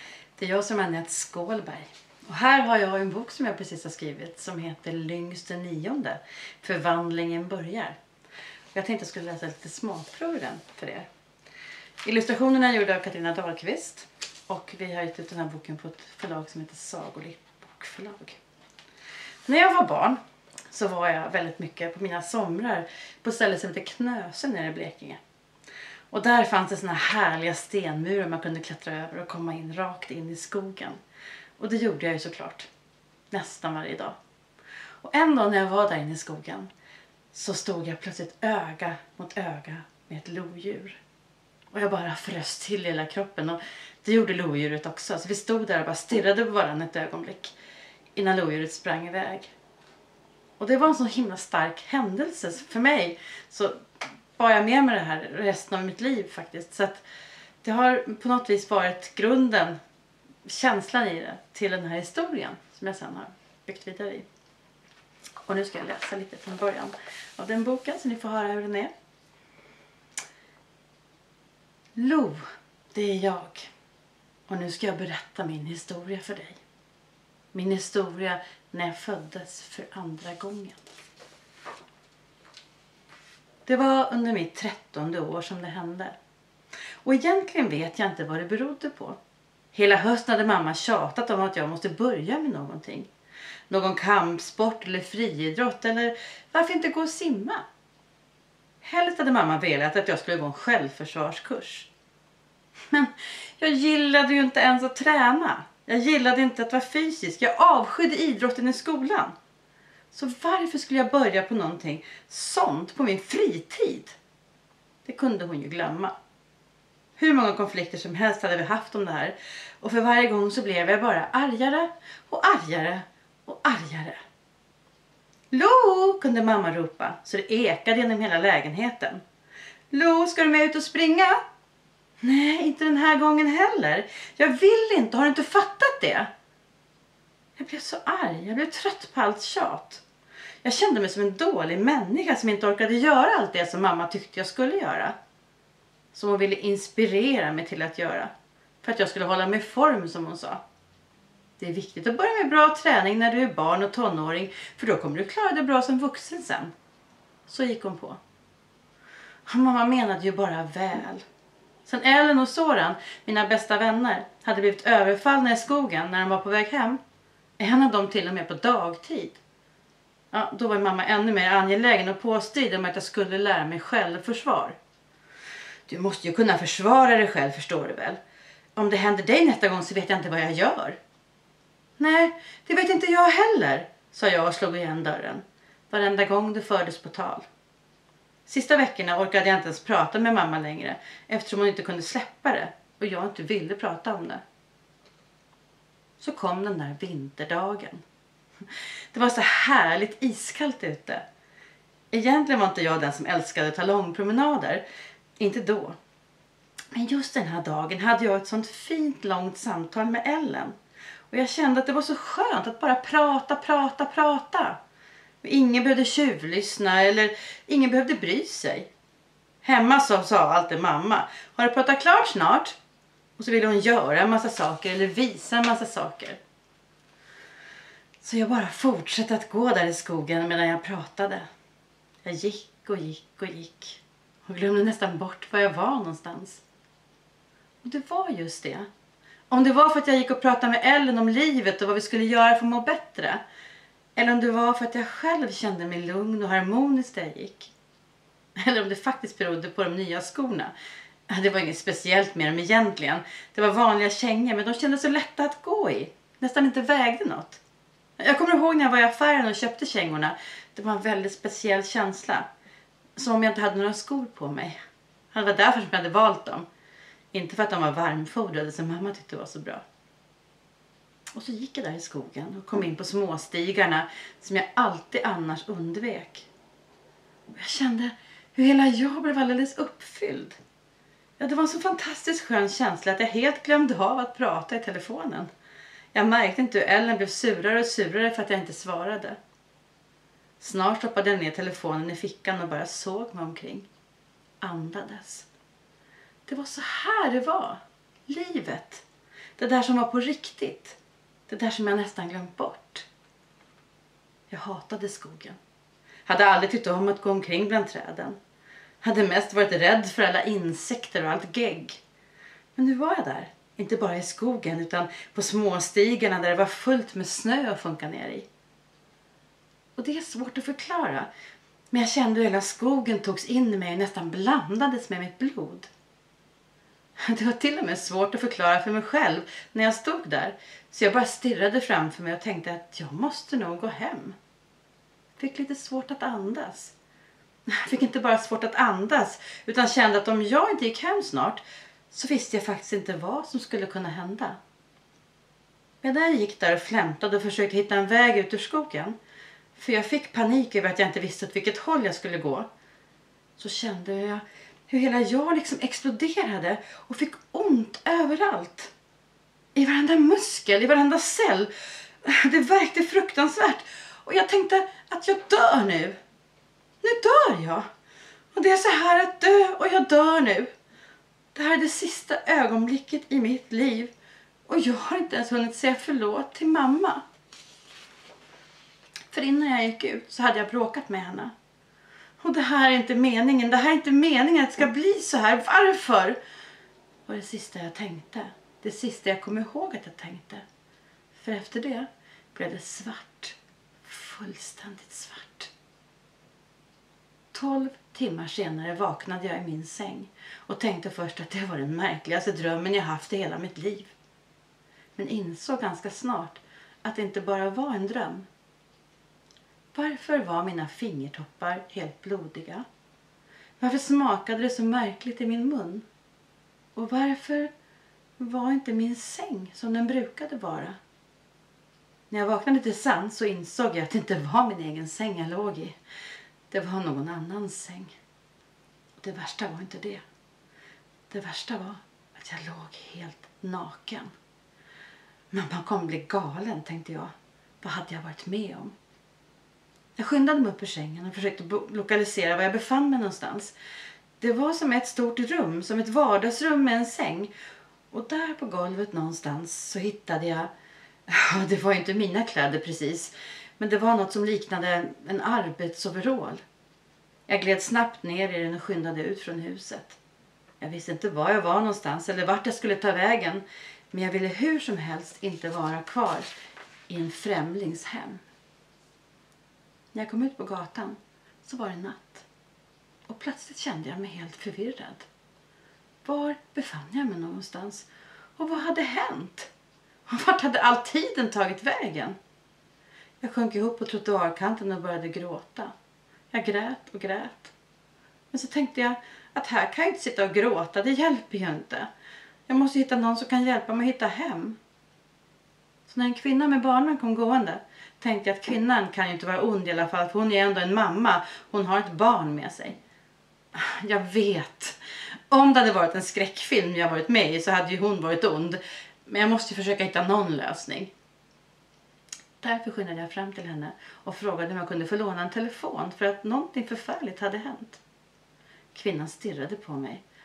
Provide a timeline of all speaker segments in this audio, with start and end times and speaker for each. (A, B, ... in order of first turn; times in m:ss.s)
0:00.4-0:08.0 A
0:08.7-0:11.1 A
0:12.0-0:18.4 A
0:19.4-0:20.2 A
0:20.7-0:25.2 A
0:26.1-0:31.0 A
0:31.6-0:32.7 A
0:33.3-0:34.2 A
0:35.0-0:36.7 A
0:37.3-0:41.0 A
0:41.7-0:47.5 A
0:48.2-0:49.5 A
0:50.6-0:53.8 A
0:54.4-0:57.0 A
0:57.6-0:59.8 A
1:00.4-1:04.2 A
1:05.4-1:08.9 A
1:12.0-1:13.7 A
1:14.5-1:16.6 A
1:17.5-1:20.8 A
1:23.6-1:26.2 A
1:27.0-1:29.2 A
1:29.7-1:33.1 A
1:33.7-1:37.6 A
1:38.8-1:41.9 A
1:42.9-1:49.3 A
1:50.1-1:54.2 A
1:55.0-1:56.1 A
1:57.2-2:04.2 A
2:05.5-2:09.2 A
2:09.9-2:11.4 A
2:12.2-2:16.3 A
2:17.6-2:20.0 A
2:20.6-2:25.1 A
2:26.1-2:28.3 A
2:28.8-2:30.6 A
2:31.6-2:36.7 A
2:37.4-2:38.2 A
2:39.5-2:41.2 A
2:41.8-2:47.0 A
2:47.6-2:49.4 A
2:50.3-2:54.8 A
2:55.9-2:58.2 A
2:58.8-3:01.0 A
3:02.0-3:07.4 A
3:08.5-3:14.4 A
3:16.2-3:18.0 A
3:19.1-3:21.2 A
3:22.1-3:24.8 A
3:25.4-3:26.0 A
3:26.9-3:30.7 A
3:31.3-3:34.8 A
3:35.4-3:38.9 A
3:39.6-3:42.8 A
3:43.4-3:46.4 A
3:48.2-3:51.4 A
3:52.2-3:56.6 A
3:57.8-3:58.9 A
3:59.5-4:03.4 A
4:04.2-4:07.7 A
4:08.6-4:10.7 A
4:11.3-4:17.6 A
4:18.2-4:22.4 A
4:23.2-4:24.8 A
4:25.3-4:26.6 A
4:27.3-4:29.8 A
4:31.3-4:36.5 A
4:37.5-4:40.6 A
4:41.4-4:45.5 A
4:46.1-4:49.4 A
4:50.6-4:53.9 A
4:54.6-4:55.5 A
4:56.5-4:59.0 A
4:59.6-5:03.1 A
5:04.5-5:05.6 A
5:06.2-5:08.4 A
5:09.0-5:12.0 A
5:12.8-5:18.5 A
5:20.0-5:21.3 A
5:21.9-5:25.9 A
5:27.2-5:34.4 A
5:35.4-5:36.9 A
5:37.7-5:44.6 A
5:46.0-5:49.1 A
5:49.8-5:52.7 A
5:53.6-5:58.9 A
5:59.7-6:01.7 A
6:02.2-6:06.2 A
6:07.0-6:07.8 A
6:08.5-6:10.7 A
6:11.5-6:14.1 A
6:14.7-6:17.2 A
6:19.3-6:21.5 A
6:22.4-6:26.4 A
6:27.2-6:30.6 A
6:31.4-6:35.7 A
6:37.5-6:44.1 A
6:45.2-6:48.5 A
6:49.9-6:52.8 A
6:53.8-6:56.0 A
6:56.9-6:57.7 A
6:58.4-7:01.0 A
7:02.3-7:06.0 A
7:06.7-7:08.1 A
7:09.2-7:10.2 A
7:11.3-7:14.3 A
7:15.5-7:18.9 A
7:20.2-7:23.7 A
7:24.4-7:27.5 A
7:28.1-7:30.7 A
7:31.3-7:36.6 A
7:37.5-7:40.2 A
7:40.8-7:46.5 A
7:47.1-7:48.4 A
7:50.1-7:52.5 A
7:53.3-7:55.3 A
7:56.2-7:59.7 A
8:00.3-8:02.4 A
8:03.4-8:05.9 A
8:06.5-8:07.7 A
8:08.5-8:12.1 A
8:12.7-8:14.8 A
8:16.1-8:23.0 A
8:23.7-8:25.0 A
8:25.5-8:31.1 A
8:32.6-8:38.0 A
8:38.9-8:40.2 A